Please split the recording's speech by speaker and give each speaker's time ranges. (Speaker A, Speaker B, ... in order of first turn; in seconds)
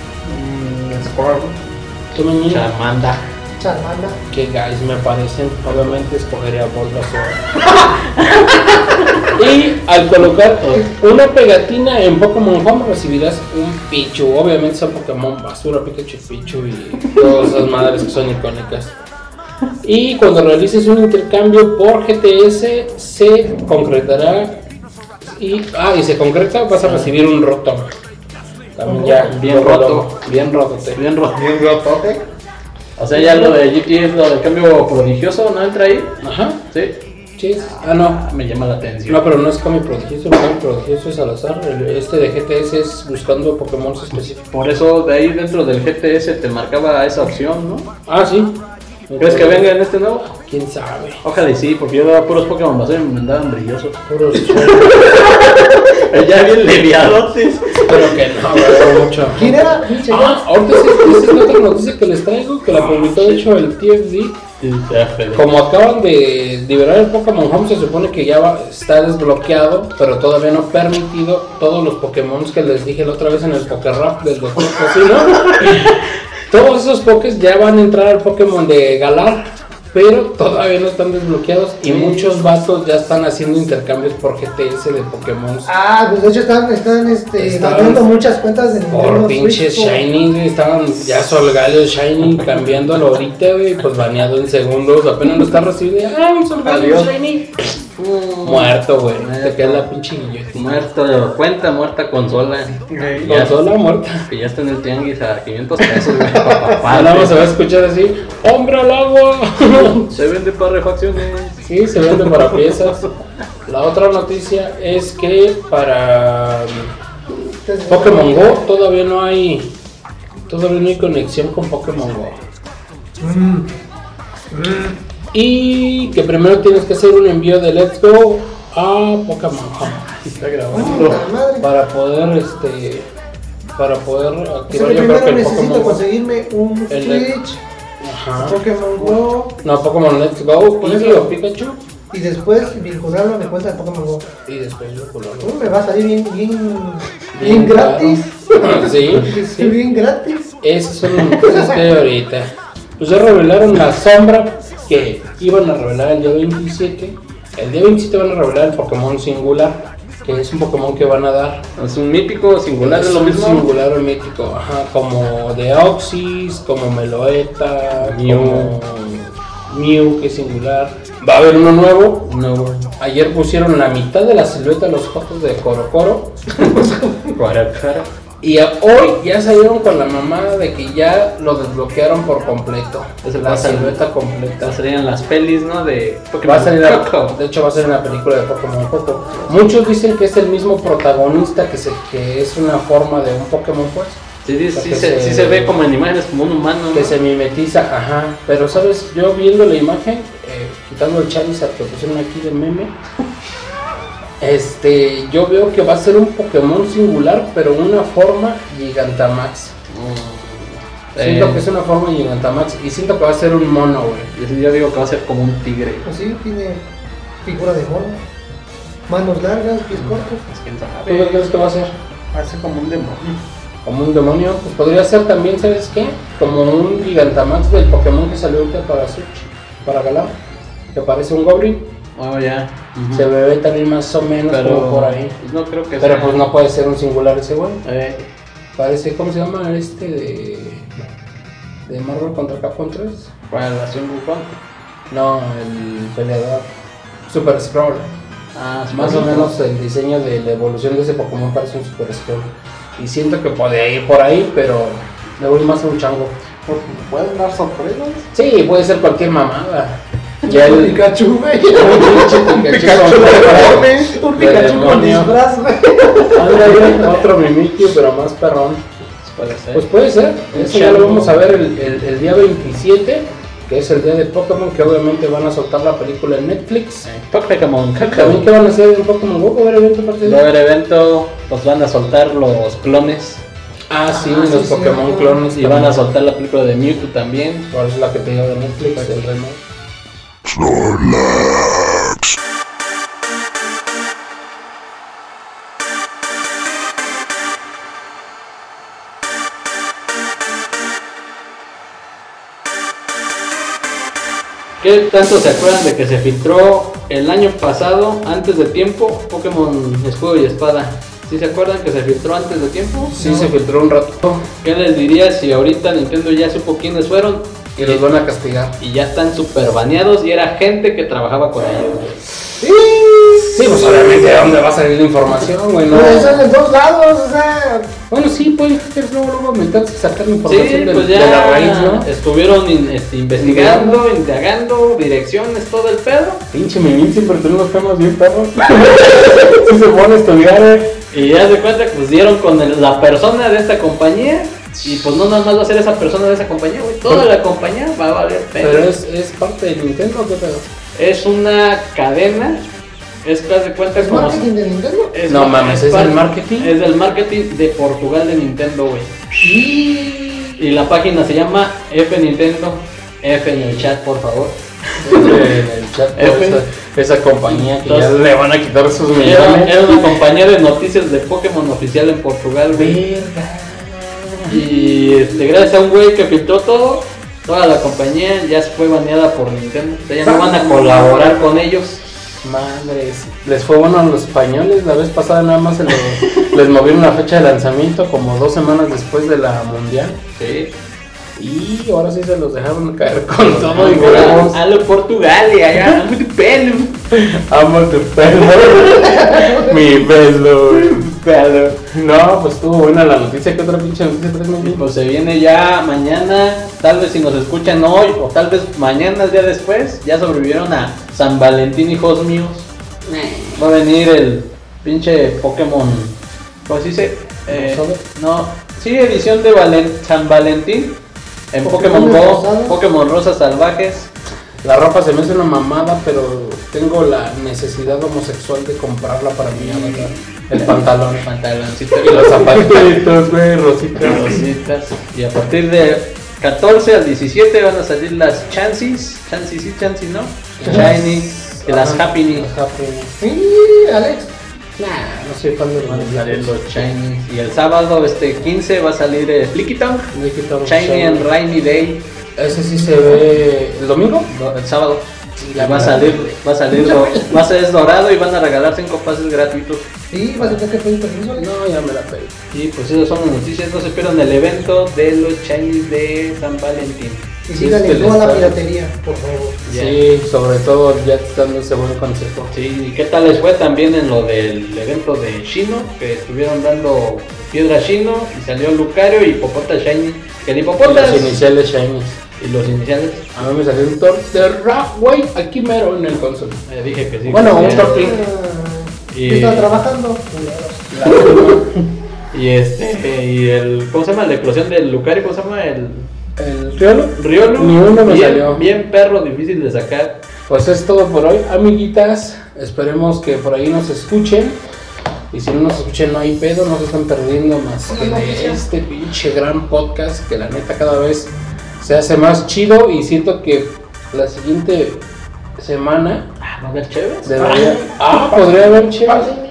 Speaker A: 0.2-1.6, 31.3-32.2, 256.6-258.3, 262.5-264.1
Speaker B: 2.1-2.7, 4.3-7.4, 9.3-18.9, 19.8-24.6, 25.2-27.9, 28.8-31.0, 36.2-36.6, 37.4-38.2, 39.1-44.5, 48.1-48.6, 49.1-49.7, 50.4-51.2, 54.1-54.9, 57.9-64.4, 65.3-85.7, 87.4-88.0, 88.9-97.6, 98.4-100.8, 103.2-104.3, 106.8-110.1, 111.6-113.0, 113.7-116.9, 117.9-119.7, 120.5-122.4, 125.3-130.1, 131.6-133.1, 133.8-136.0, 136.9-137.3, 138.0-138.6, 139.6-141.8, 144.4-145.7, 147.3-149.8, 150.6-152.5, 153.0-161.6, 162.8-172.3, 172.8-176.4, 178.4-184.7, 186.4-195.8, 196.9-202.9, 204.4-209.7, 211.2-214.3, 221.1-221.9, 223.8-230.4, 230.9-231.9, 233.1-235.3, 236.0-237.8, 238.8-240.9, 241.8-243.3, 245.1-246.7, 247.3-248.1, 248.9-256.4, 258.3-261.1, 261.7-265.3, 266.3-268.8, 269.7-277.1, 278.0-280.4, 283.9-286.0, 287.7-289.6, 313.1-314.4, 317.8-318.8, 323.5-326.4, 328.1-332.1, 333.4-334.0, 336.5-340.9, 348.6-350.7, 355.3-356.7, 365.0-370.0, 372.7-375.3, 380.2-381.4, 382.4-390.2, 391.4-394.6, 397.1-401.1, 401.9-404.8, 413.1-413.6, 417.5-418.0, 424.6-431.2, 432.0-434.4, 440.6-443.1, 444.8-446.6, 450.1-451.3, 452.4-454.3, 455.4-456.3, 461.4-462.4, 467.5-468.6, 469.7-472.5, 480.8-482.2, 483.3-486.6, 487.3-488.2, 490.9-491.7, 496.4-498.6, 500.5-504.6, 505.3-515.0, 515.6-516.3, 517.2-519.4
Speaker C: 2.5-3.2, 8.0-9.2, 26.8-27.1, 29.2-30.1, 30.9-31.5, 33.0-36.2, 36.7-37.0, 37.7-39.2, 44.5-47.9, 49.2-50.3, 51.2-59.0, 62.7-63.4, 64.6-65.5, 81.8-82.4, 96.6-97.1, 98.0-99.8, 100.5-103.6, 104.3-107.4, 110.1-112.6, 130.1-131.2, 161.8-163.7, 168.0-168.7, 172.2-172.9, 177.3-178.1, 183.2-184.0, 184.6-187.3, 189.3-189.6, 194.4-197.1, 209.9-211.6, 214.3-216.1, 219.9-221.4, 222.3-223.3, 232.2-233.3, 234.5-236.4, 237.8-238.2, 243.5-244.6, 248.5-249.5, 269.2-269.9, 270.5-271.4, 277.0-278.5, 280.2-283.4, 285.5-287.7, 288.9-289.2, 304.8-313.2, 314.6-318.0, 318.8-322.2, 330.4-336.4, 341.1-348.9, 350.9-352.7, 353.2-354.4, 355.1-359.1, 360.6-365.4, 366.1-366.6, 367.4-368.2, 369.1-373.0, 374.5-382.0, 390.4-390.7, 393.4-397.0, 398.3-399.3, 400.7-401.8, 404.6-412.7, 413.6-421.0, 421.5-424.1, 429.5-433.1, 434.0-442.5, 445.8-452.0, 454.3-459.9, 462.5-467.3, 469.6-470.0, 472.5-481.4, 482.4-483.3, 486.7-487.9, 489.1-489.8, 492.3-496.1, 497.1-500.2, 516.4-517.5
Speaker D: 3.6-4.2, 28.9-29.2, 33.1-33.5, 59.3-60.4, 85.7-90.0, 117.6-118.6, 123.2-123.7, 124.5-125.0, 130.7-131.7, 134.7-137.6, 138.4-139.6, 140.8-141.3, 142.1-144.3, 145.4-150.5, 151.2-151.9, 216.1-216.8, 217.4-218.2, 219.1-220.4, 260.4-267.2, 284.1-285.4, 313.1-313.5, 322.6-324.1, 325.9-327.9, 353.9-355.1, 359.4-360.6, 398.9-399.8, 421.6-422.8, 443.2-444.3, 452.7-453.2, 456.7-457.4, 460.1-461.5, 467.5-469.6, 487.7-491.2, 507.9-508.6